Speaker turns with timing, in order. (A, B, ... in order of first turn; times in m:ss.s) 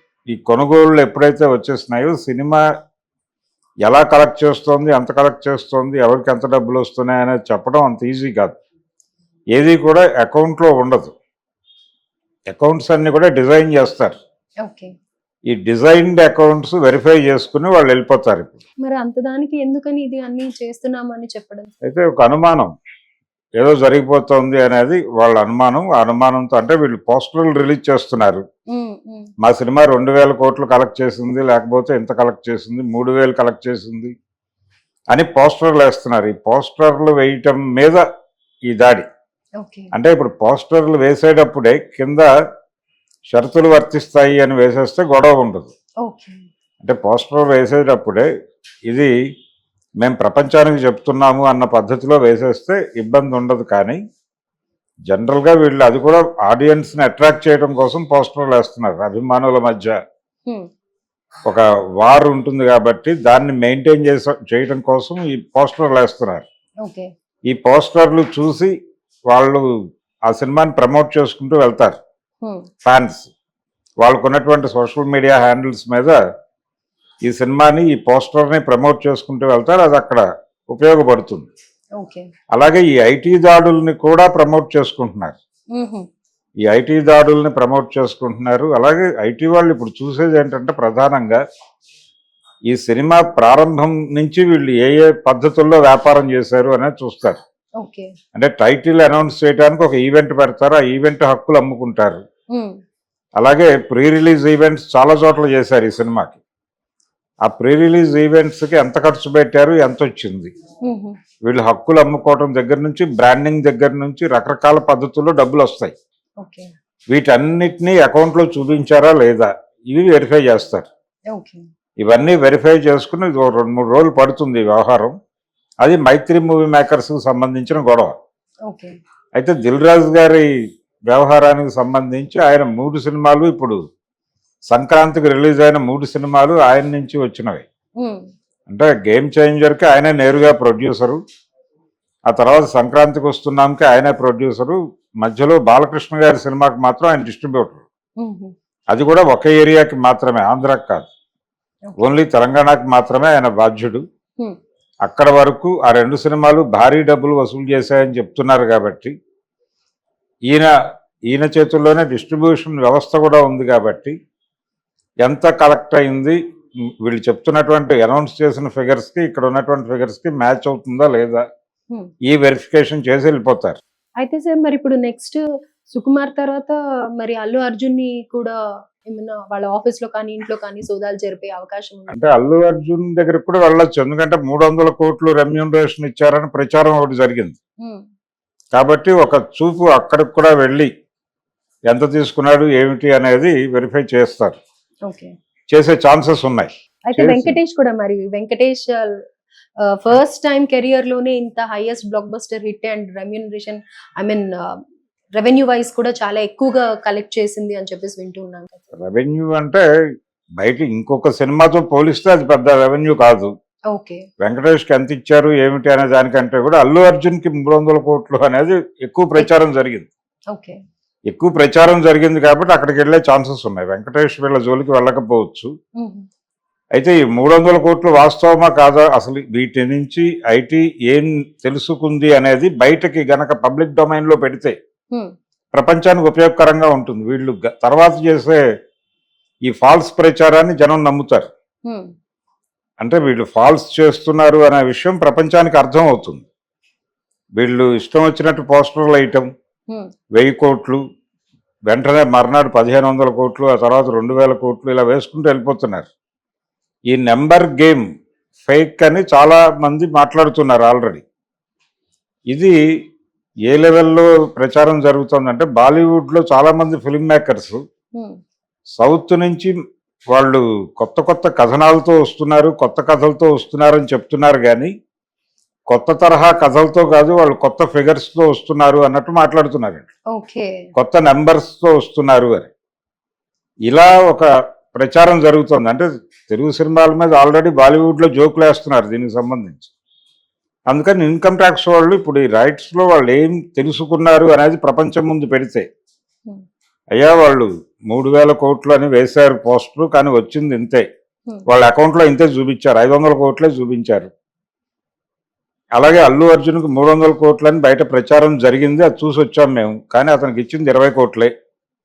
0:00.3-0:02.6 A
0:03.9-0:08.6 A
0:09.5-0:11.1 A
0:12.5-0:14.2 A
0:14.6-0:14.9 B
0:15.5-0:18.6 A
0:18.8-0:21.7 B
0:21.8-0:22.7 A
0:23.6-0:28.4 A
0:28.7-0:29.3 B
0:29.4-0:34.1 A
0:35.1-0:38.0 A
0:38.7-0:39.1 A
0:39.6-0:39.9 B
0:39.9-0:42.3 A
0:43.3-0:45.7 A
0:46.0-0:46.4 B
0:46.8-0:48.3 A
0:50.0-0:54.0 A
0:55.1-1:00.0 A
1:01.5-1:06.4 A
1:06.8-1:07.1 B
1:07.5-1:08.7 A
1:09.3-1:09.7 A
1:10.3-1:12.0 A
1:12.8-1:13.3 A
1:14.0-1:16.2 A
1:17.2-1:21.5 A
1:22.0-1:22.3 B
1:22.5-1:25.4 A
1:25.8-1:26.0 B
1:26.7-1:31.4 A
1:32.7-1:37.4 A
1:37.8-1:38.1 B
1:38.4-1:42.2 A
1:42.5-1:42.8 B
1:43.4-1:46.4 A
1:47.5-1:50.5 A
1:50.9-1:51.2 B
1:51.4-1:55.9 A
1:56.4-1:56.7 B
1:57.1-2:00.9 A
2:01.3-2:01.6 B
2:02.0-2:05.2 A
2:05.8-2:08.2 A
2:08.7-2:09.0 B
2:09.4-2:10.5 A
2:11.1-2:13.8 A
2:14.7-2:17.6 A
2:18.0-2:18.3 B
2:18.7-2:21.2 A
2:22.3-2:27.8 A
2:28.2-2:28.5 B
2:28.9-2:31.1 A
2:32.0-2:34.0 A
2:35.1-2:39.1 A
2:41.3-2:44.1 A
2:45.2-2:46.4 A
2:47.0-2:51.4 A
2:52.3-2:53.8 A
2:54.2-2:55.4 B
2:55.9-3:02.2 B
3:02.1-3:07.6 A
3:08.7-3:10.9 A
3:11.9-3:14.6 A
3:15.1-3:15.3 B
3:15.7-3:17.6 A
3:17.1-3:19.2 B
3:19.9-3:24.8 B
3:25.4-3:28.9 B
3:28.9-3:29.8 A
3:30.6-3:33.5 A
3:33.9-3:34.2 B
3:34.4-3:40.1 A
3:40.5-3:40.8 B
3:41.3-3:45.7 A
3:46.0-3:46.3 B
3:47.0-3:54.8 A
3:55.7-3:58.6 A
3:59.7-4:01.5 A
4:01.9-4:02.1 B
4:03.0-4:06.5 A
4:07.6-4:09.5 A
4:10.4-4:11.0 A
4:11.9-4:16.1 A
4:17.1-4:18.1 A
4:18.6-4:21.2 A
4:22.5-4:22.8 A
4:23.7-4:27.8 A
4:29.0-4:29.7 A
4:30.3-4:34.9 A
4:35.9-4:40.1 A
4:40.3-4:40.8 B
4:41.0-4:42.7 A
4:43.9-4:49.9 A
4:50.9-4:55.9 A
4:57.2-5:01.0 A
5:01.7-5:04.3 A
5:06.0-5:11.5 A